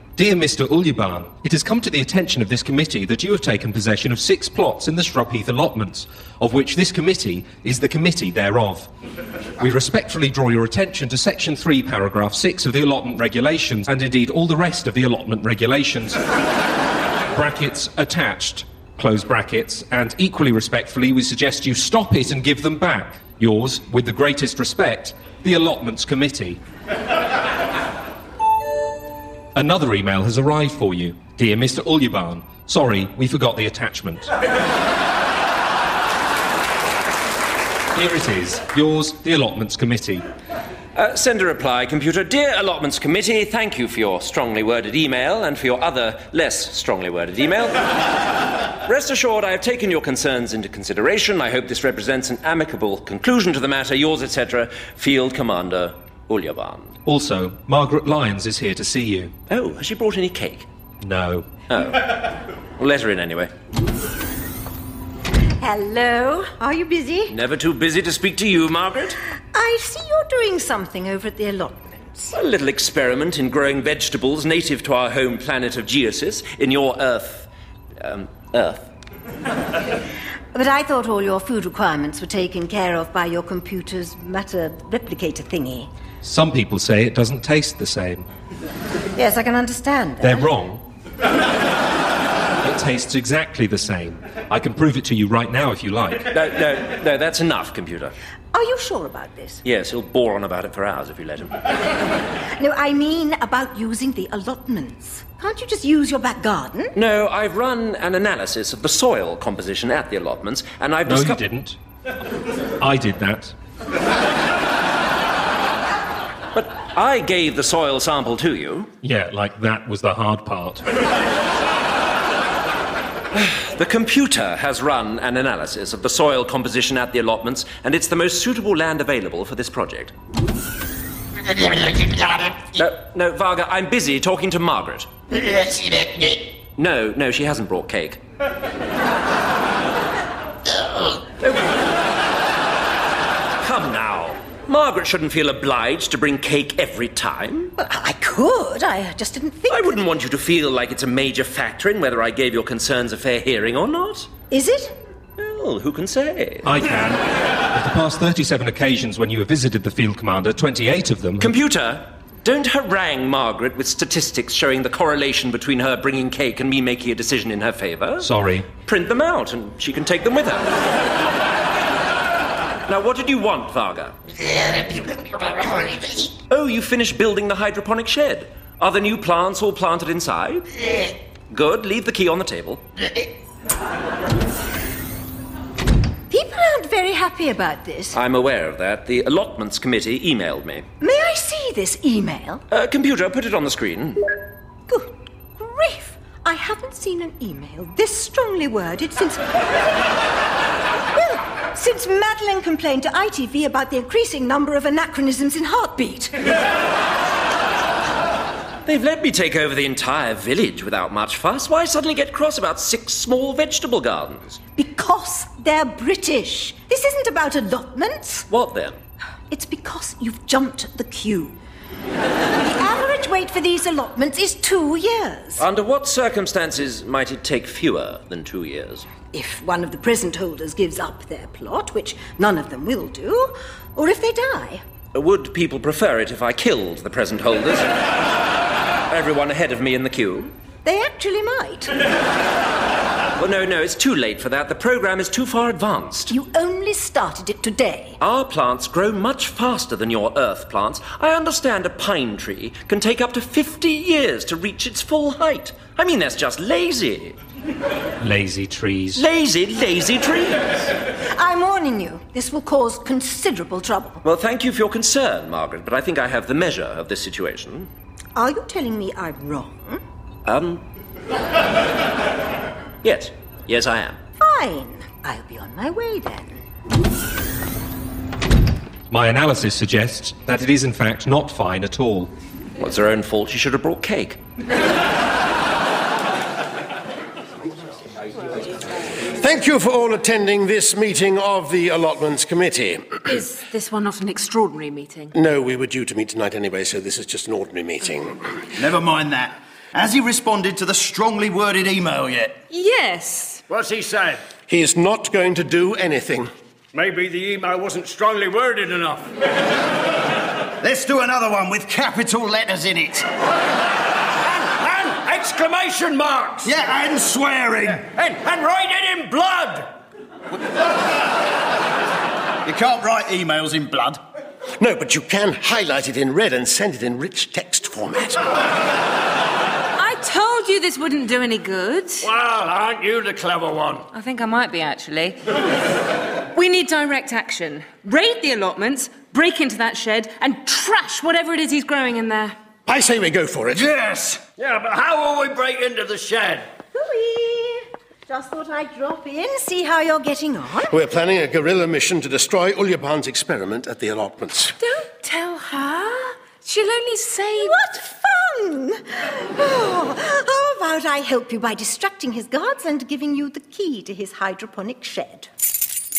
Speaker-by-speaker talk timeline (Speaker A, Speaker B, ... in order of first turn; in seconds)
Speaker A: 0.1-8.9, 9.6-16.2, 17.3-26.6, 29.5-34.3, 37.9-40.2, 57.0-59.3, 61.0-61.5, 86.2-88.3, 90.2-90.8, 92.6-96.3, 111.0-111.8, 112.8-113.5, 119.0-120.8, 156.6-161.5, 168.2-168.7, 258.2-259.2, 279.1-282.3
Speaker B: 40.9-48.0, 48.8-57.0, 59.5-60.7, 61.7-63.5, 67.3-69.2, 72.3-77.5, 78.0-78.9, 96.3-98.1, 99.6-101.6, 106.9-111.4, 116.5-118.9, 123.3-130.1, 132.7-135.1, 135.6-138.2, 141.4-141.7, 143.6-147.7, 149.7-154.3, 155.4-156.7, 161.4-168.3, 168.8-170.8, 172.9-174.2, 176.5-180.8, 181.5-182.8, 188.1-190.9, 192.7-194.3, 208.8-214.6, 218.5-219.0, 225.6-229.1, 235.1-238.0, 239.1-240.5, 243.4-246.3, 248.2-257.4, 259.1-260.6, 264.2-267.9, 270.4-270.8, 273.0-274.2, 282.8-284.4
Speaker C: 65.6-67.3, 69.5-72.3, 80.5-85.9, 89.1-90.5, 98.5-99.6, 102.5-106.9, 147.8-150.0, 154.5-154.9, 186.3-188.2, 191.0-192.6, 194.9-199.8, 201.1-206.5, 214.8-218.5, 219.5-221.6, 222.5-225.6, 229.3-234.8, 240.8-242.0, 246.3-248.2, 261.3-264.2, 268.3-270.0, 274.4-276.6, 346.9-351.0, 357.6-365.5
Speaker D: 289.4-293.3, 295.3-298.5, 304.7-306.5, 324.8-328.4, 342.9-343.9, 350.9-354.8
Speaker E: 293.3-295.3, 302.7-303.6, 329.9-332.3, 334.1-335.4, 336.5-342.6, 354.8-357.8
Speaker F: 298.8-302.6, 310.8-313.3, 316.6-318.0, 322.6-324.2, 343.7-344.4
Speaker G: 303.7-304.4, 306.9-309.3, 314.4-316.7, 318.0-319.9, 332.2-334.1, 344.5-346.7